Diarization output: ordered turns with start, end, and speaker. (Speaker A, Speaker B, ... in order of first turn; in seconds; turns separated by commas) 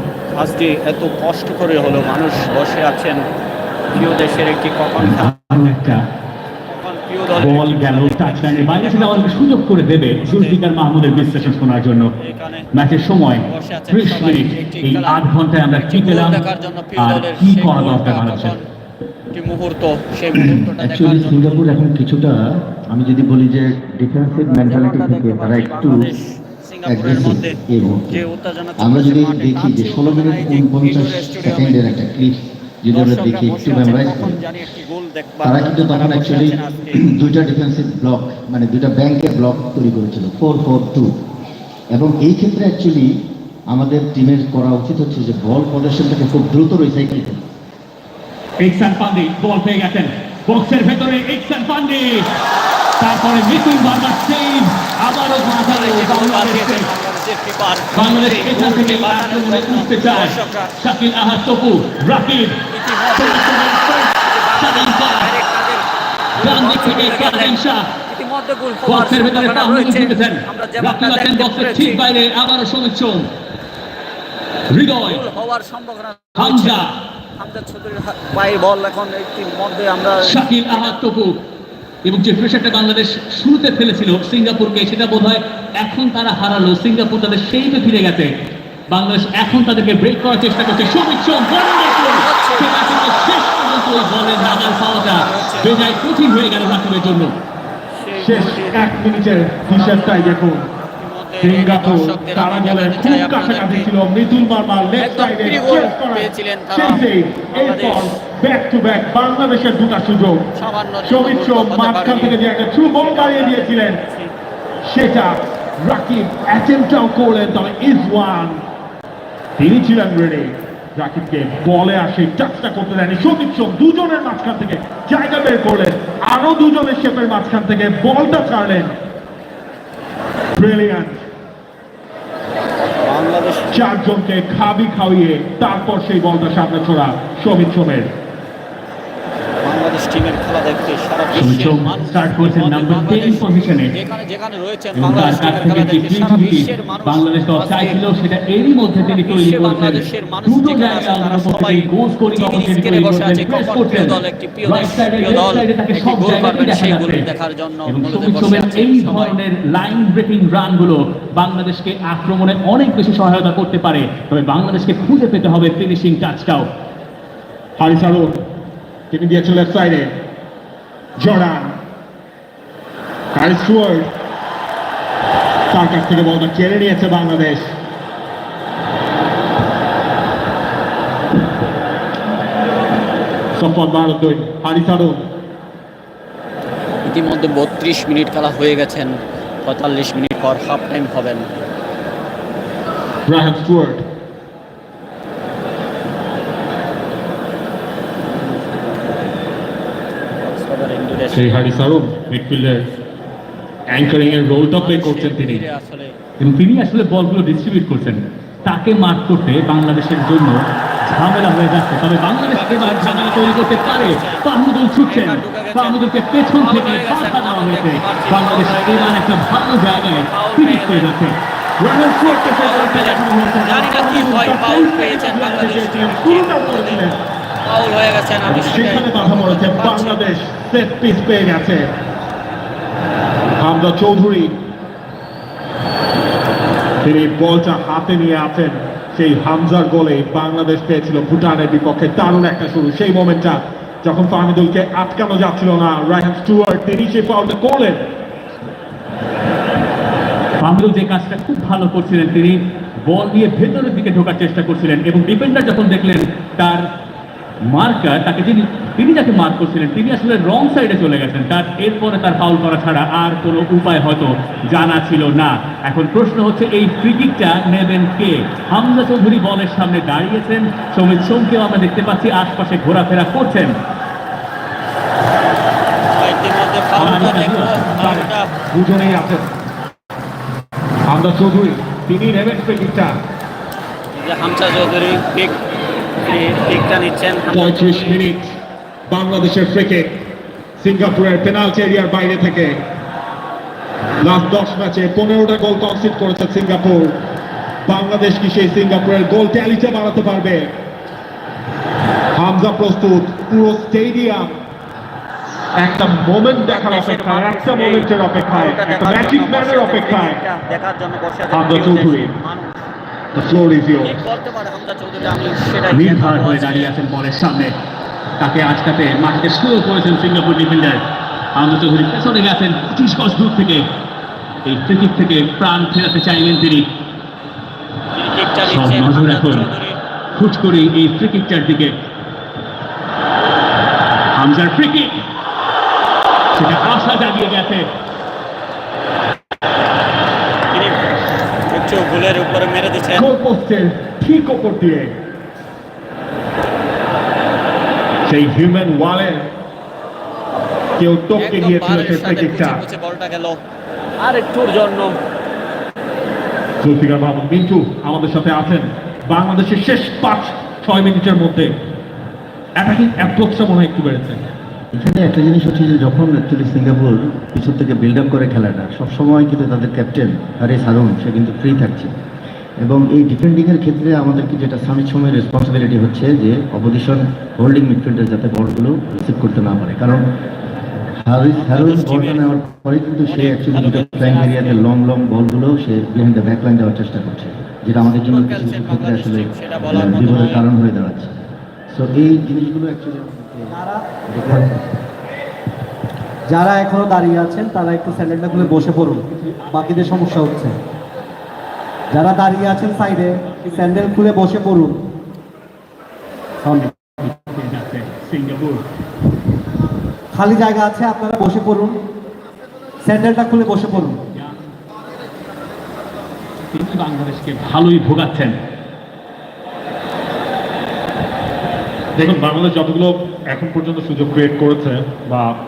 Speaker A: 0.3-3.2, Speaker A: 3.9-5.9, Speaker B: 5.0-6.0, Speaker A: 6.7-9.4, Speaker B: 7.3-12.1, Speaker A: 10.2-12.7, Speaker B: 12.7-16.4, Speaker A: 13.3-18.6, Speaker B: 17.0-18.5, Speaker A: 19.3-21.7, Speaker C: 20.3-26.1, Speaker A: 24.3-31.8, Speaker C: 26.9-28.2, Speaker C: 28.8-34.4, Speaker A: 32.9-37.1, Speaker C: 35.4-41.1, Speaker C: 41.9-43.1, Speaker C: 43.7-47.4, Speaker B: 48.6-52.3, Speaker B: 53.0-56.9, Speaker A: 55.6-60.7, Speaker B: 57.9-62.6, Speaker A: 62.7-65.8, Speaker B: 63.1-65.3, Speaker A: 66.4-72.0, Speaker B: 66.4-67.9, Speaker B: 68.8-73.3, Speaker B: 74.7-75.2, Speaker A: 75.0-76.8, Speaker B: 76.4-76.9, Speaker A: 77.3-81.0, Speaker B: 80.2-81.3, Speaker B: 82.0-88.3, Speaker B: 88.9-97.3, Speaker A: 92.0-93.4, Speaker A: 93.9-95.9, Speaker A: 97.9-98.9, Speaker D: 98.2-100.7, Speaker A: 99.7-103.9, Speaker D: 101.4-110.5, Speaker A: 105.0-108.1, Speaker A: 110.5-114.3, Speaker D: 111.0-114.0, Speaker D: 114.8-118.6, Speaker D: 119.6-128.9, Speaker D: 130.5-131.2, Speaker A: 133.0-133.7, Speaker D: 133.7-138.1, Speaker A: 139.6-148.0, Speaker B: 141.3-143.9, Speaker B: 144.9-157.3, Speaker A: 149.0-159.4, Speaker B: 157.9-166.7, Speaker D: 167.8-168.4, Speaker D: 169.1-170.1, Speaker D: 171.2-171.8, Speaker D: 173.3-174.1, Speaker D: 175.7-177.7, Speaker D: 183.5-185.2, Speaker A: 187.0-191.5, Speaker D: 193.3-194.0, Speaker A: 198.4-198.9, Speaker A: 200.4-201.8, Speaker D: 201.3-202.8, Speaker D: 203.9-205.6, Speaker A: 204.8-206.1, Speaker B: 206.4-221.4, Speaker A: 212.4-214.4, Speaker A: 215.1-216.0, Speaker A: 216.6-219.2, Speaker A: 220.2-221.1, Speaker D: 221.8-227.2, Speaker A: 222.2-227.0, Speaker A: 227.7-230.2, Speaker D: 228.4-231.9, Speaker D: 233.6-234.6, Speaker D: 237.0-248.1, Speaker B: 250.6-256.9, Speaker B: 257.6-273.8, Speaker A: 276.2-278.5, Speaker B: 277.0-277.9, Speaker D: 277.9-279.4, Speaker D: 281.1-283.2, Speaker A: 284.1-285.5, Speaker A: 286.2-288.2, Speaker D: 287.5-288.5, Speaker D: 289.1-290.2, Speaker D: 290.8-292.8, Speaker D: 294.2-297.2, Speaker D: 297.9-300.7, Speaker D: 302.3-304.5, Speaker D: 305.8-310.4, Speaker A: 306.7-312.7, Speaker D: 311.5-312.3, Speaker D: 313.3-314.2, Speaker A: 314.0-316.9, Speaker B: 315.9-317.7, Speaker B: 318.4-321.0, Speaker B: 321.5-323.9, Speaker B: 324.6-326.9, Speaker A: 328.1-330.0, Speaker B: 328.6-329.7, Speaker B: 330.3-332.0, Speaker B: 334.3-335.2, Speaker B: 336.5-337.9, Speaker A: 340.7-341.1, Speaker A: 341.6-343.3, Speaker D: 343.1-345.1, Speaker D: 348.2-349.5, Speaker D: 351.0-352.8, Speaker A: 351.4-353.6, Speaker A: 354.2-355.1, Speaker D: 356.8-361.7, Speaker D: 362.8-364.4, Speaker C: 364.9-372.1, Speaker C: 372.8-380.3, Speaker C: 381.2-391.3, Speaker A: 381.6-382.5, Speaker A: 383.3-384.8, Speaker A: 388.0-390.6, Speaker C: 391.9-393.8, Speaker E: 393.7-394.7, Speaker C: 394.3-394.8, Speaker E: 396.5-400.8, Speaker B: 398.1-400.6, Speaker E: 402.1-405.0, Speaker B: 402.9-404.2, Speaker B: 406.8-408.8, Speaker E: 410.3-411.9, Speaker E: 413.0-414.2, Speaker B: 414.3-414.7, Speaker B: 416.7-418.5, Speaker D: 422.2-425.5